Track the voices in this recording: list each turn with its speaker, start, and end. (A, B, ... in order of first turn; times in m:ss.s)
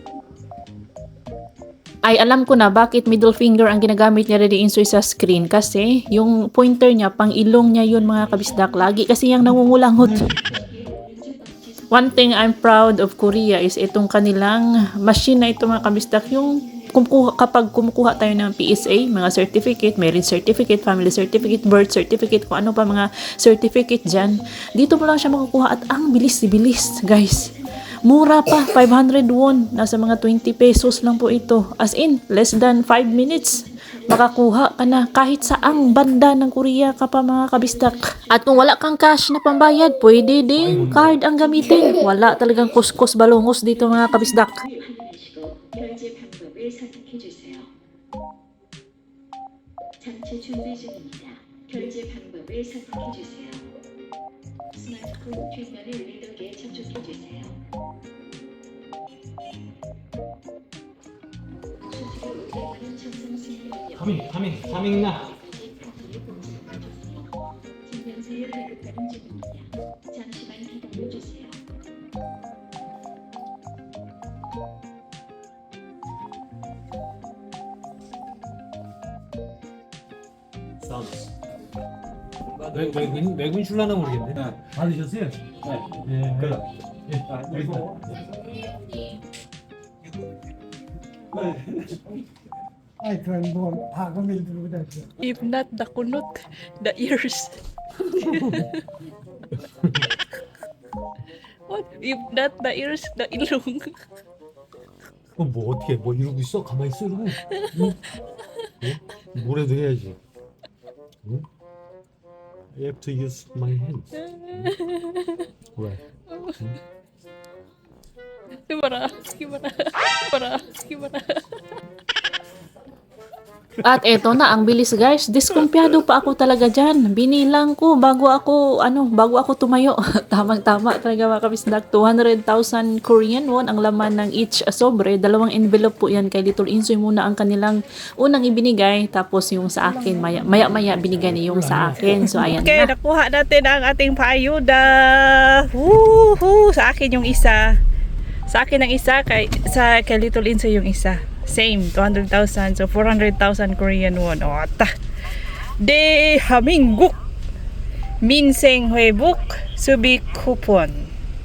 0:02.0-0:10.3 A
0:07.9-0:09.2 B
0:10.0-0:10.8 C
0:10.1-0:12.6 B
0:11.9-0:44.6 A
0:15.7-0:17.2 B
0:18.5-0:19.0 B
0:25.0-0:25.5 B
0:26.9-0:28.5 B
0:30.5-0:31.2 B
0:33.1-0:36.0 B
0:37.6-0:38.8 B
0:40.6-0:41.2 C
0:43.7-0:47.7 B
0:50.0-0:53.6 B
0:54.8-0:57.6 B
1:01.8-1:07.3 B
1:03.9-1:05.3 C
1:07.9-1:11.6 B
1:20.8-1:21.3 C
1:22.7-1:28.3 C
1:25.6-1:26.0 B
1:27.4-1:28.3 D
1:33.0-1:35.1 D
1:35.2-1:37.5 E
1:38.2-1:38.8 E
1:39.7-1:40.1 C
1:41.7-1:43.9 E
1:45.4-1:48.0 C
1:48.8-1:50.2 C
1:52.7-1:54.8 C
1:54.6-1:55.4 A
1:58.7-1:59.5 E
1:59.1-1:59.7 A
2:00.3-2:01.2 E
2:03.8-2:22.9 A
2:20.1-2:22.5 C
2:22.4-2:27.7 E
2:28.5-2:34.9 E
2:35.8-2:37.1 E
2:38.2-2:41.1 E